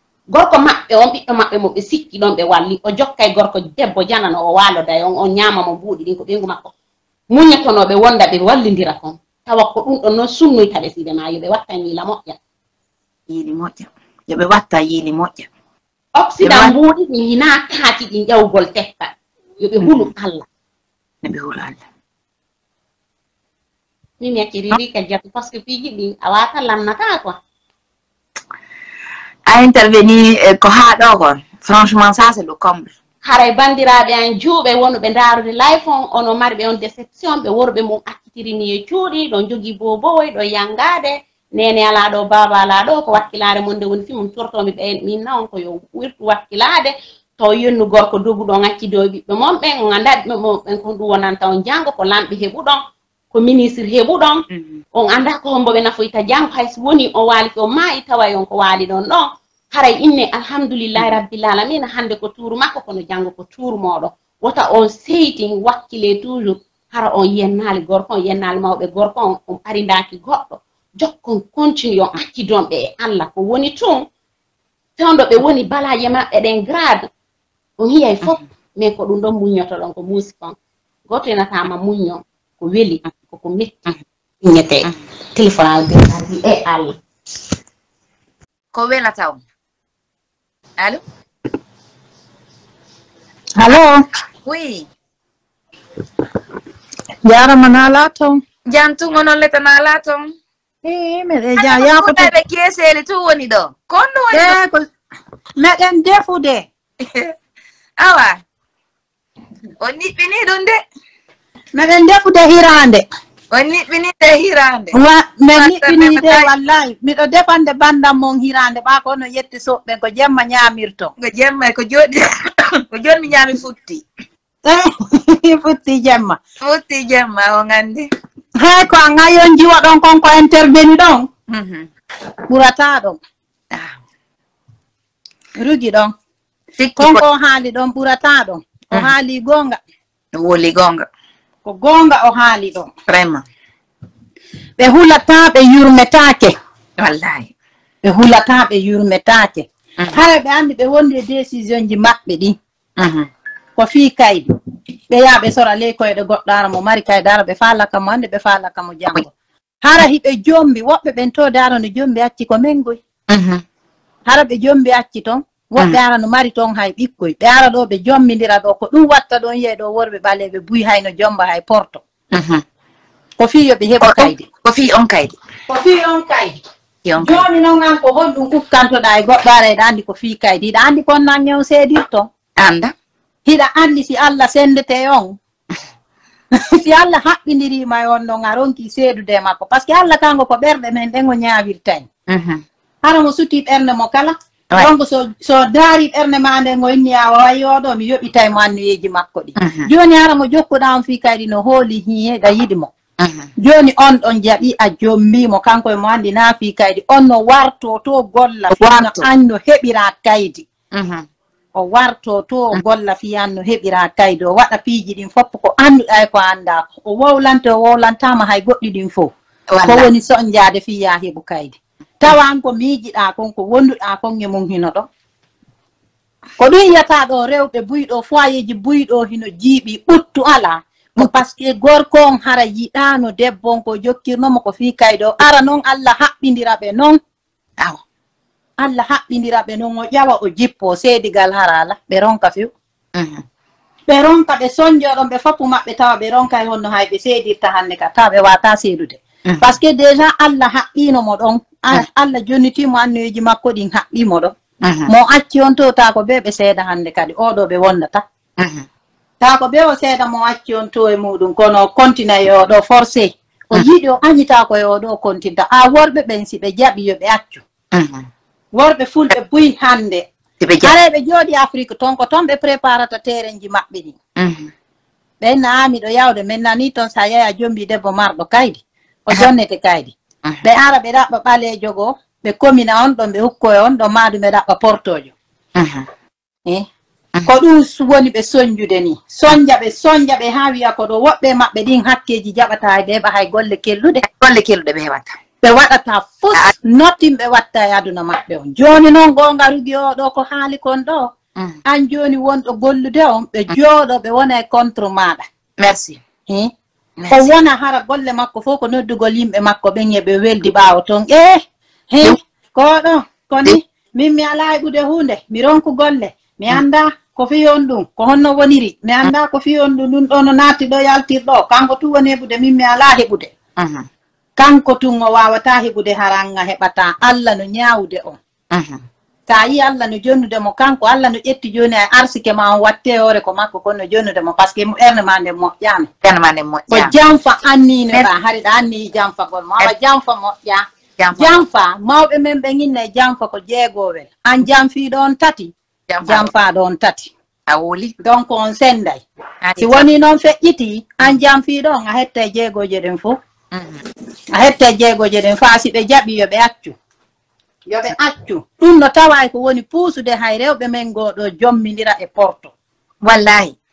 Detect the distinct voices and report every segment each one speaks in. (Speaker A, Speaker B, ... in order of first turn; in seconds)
Speaker A: 0.3-6.7, 7.3-12.4, 16.2-20.5, 24.2-27.4, 33.2-52.8, 53.3-74.0, 75.0-77.1, 77.8-80.5, 81.1-83.8, 84.4-87.0
Speaker B: 13.3-15.5, 16.4-16.7, 19.8-20.1, 21.2-21.8, 29.5-32.9, 54.5-54.8, 88.7-89.4, 90.8-91.0, 94.5-94.9, 98.7-100.3, 101.6-104.6, 107.0-107.3, 108.0-108.4, 109.8-110.8, 113.5-115.0, 115.5-116.5, 121.2-124.0, 126.6-128.1, 131.5-131.9, 136.8-137.2, 140.3-141.1, 143.1-143.4, 147.0-147.5, 153.0-153.3, 163.3-163.6, 172.3-172.6, 174.0-175.4, 177.1-177.4, 182.6-182.9, 192.3-192.6, 199.6-199.9, 203.2-203.5, 208.8-209.3, 210.9-211.3, 219.7-220.1, 243.2-243.4, 254.8-255.1, 258.6-258.9, 267.9-268.3, 270.6-270.9, 274.4-274.7, 285.8-286.1, 294.2-295.4, 305.8-306.2, 307.2-307.5, 323.8-324.1, 328.7-329.0, 336.2-337.1, 341.2-341.6, 346.1-346.5, 347.7-348.1, 349.6-350.1, 353.7-354.0, 363.2-363.8
Speaker C: 93.6-94.0, 97.2-98.4, 100.8-102.3, 104.3-104.9, 105.6-106.7, 111.7-113.1, 114.9-121.1, 124.6-126.4, 128.6-131.3, 132.5-133.2, 135.6-136.1, 137.0-139.8, 141.7-142.9, 144.8-146.6, 148.0-152.6, 153.8-154.5, 155.1-159.3, 159.8-163.0, 164.3-172.0, 173.4-174.5, 175.7-176.6, 177.2-182.3, 183.5-185.4, 186.5-192.1, 193.0-202.9, 203.6-210.7, 211.7-219.3, 219.8-225.1, 226.6-237.2, 238.8-242.7, 244.1-254.6, 255.1-258.2, 259.4-267.6, 268.7-270.3, 270.8-274.2, 275.4-285.3, 287.5-294.2, 295.6-301.3, 301.9-305.4, 306.5-306.7, 307.3-323.5, 324.6-328.4, 329.5-336.1, 336.9-340.9, 341.4-345.7, 346.2-347.3, 348.2-349.2, 349.8-353.4, 354.5-357.0, 357.9-362.7